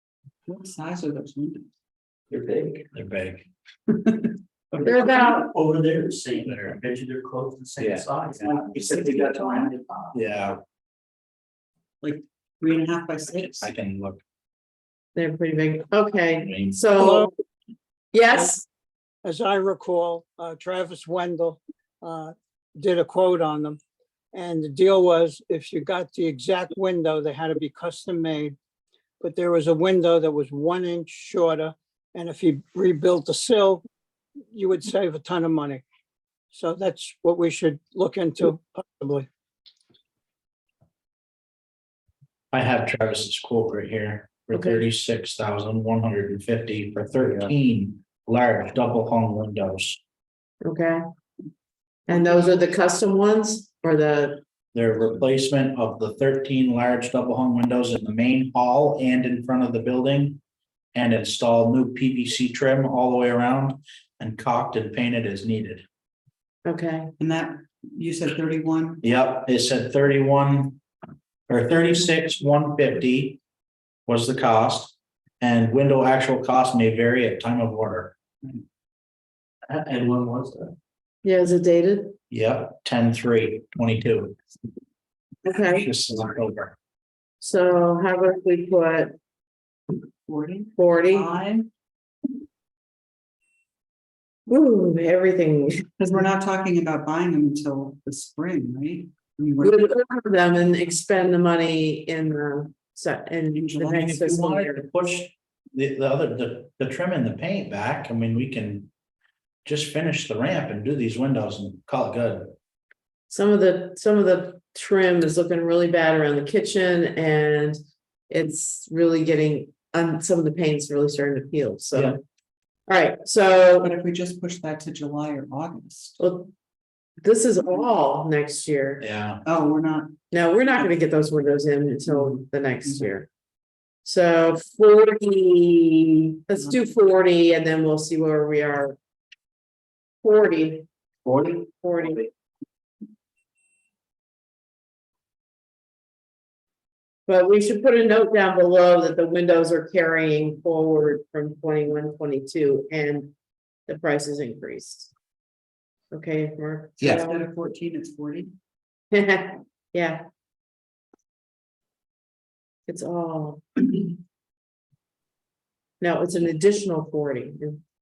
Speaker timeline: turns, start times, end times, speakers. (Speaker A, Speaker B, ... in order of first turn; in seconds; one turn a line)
Speaker A: 0.5-1.7
Speaker B: 2.3-2.9
Speaker C: 2.9-3.5
Speaker A: 4.0-5.0
Speaker B: 4.8-10.2
Speaker D: 4.8-5.5
Speaker C: 7.8-8.1
Speaker A: 8.7-9.7
Speaker C: 10.1-10.6
Speaker A: 12.0-13.7
Speaker C: 13.6-14.2
Speaker D: 15.2-17.3
Speaker C: 16.4-16.8
Speaker E: 17.0-17.3
Speaker D: 18.1-18.6
Speaker E: 19.2-23.8
Speaker E: 24.3-28.6
Speaker E: 29.2-33.9
Speaker E: 34.5-35.9
Speaker E: 36.5-39.3
Speaker C: 42.5-50.0
Speaker D: 44.5-44.8
Speaker D: 50.6-51.0
Speaker D: 52.1-54.4
Speaker C: 54.7-60.4
Speaker C: 60.9-65.8
Speaker D: 66.7-67.1
Speaker A: 67.2-69.0
Speaker C: 69.0-70.8
Speaker C: 71.5-73.4
Speaker C: 74.1-78.2
Speaker B: 79.7-80.8
Speaker D: 81.2-82.2
Speaker C: 82.3-84.4
Speaker D: 85.5-85.9
Speaker C: 85.8-86.8
Speaker D: 87.4-89.1
Speaker A: 90.3-91.7
Speaker D: 90.8-91.3
Speaker D: 94.5-95.9
Speaker A: 96.0-99.9
Speaker D: 99.6-104.9
Speaker A: 103.5-104.1
Speaker C: 103.8-108.9
Speaker C: 109.7-112.5
Speaker D: 113.3-117.8
Speaker D: 118.3-122.2
Speaker D: 122.9-123.9
Speaker A: 123.8-126.2
Speaker D: 126.2-126.5
Speaker D: 127.2-129.0
Speaker C: 129.0-129.4
Speaker A: 129.4-130.1
Speaker D: 130.3-133.3
Speaker A: 132.1-133.0
Speaker D: 134.0-139.0
Speaker D: 140.2-140.9
Speaker D: 141.8-142.2
Speaker D: 147.3-153.3
Speaker D: 153.9-155.1
Speaker D: 156.1-157.5
Speaker A: 157.0-158.5
Speaker D: 159.1-160.2
Speaker D: 162.9-163.9
Speaker D: 166.0-167.8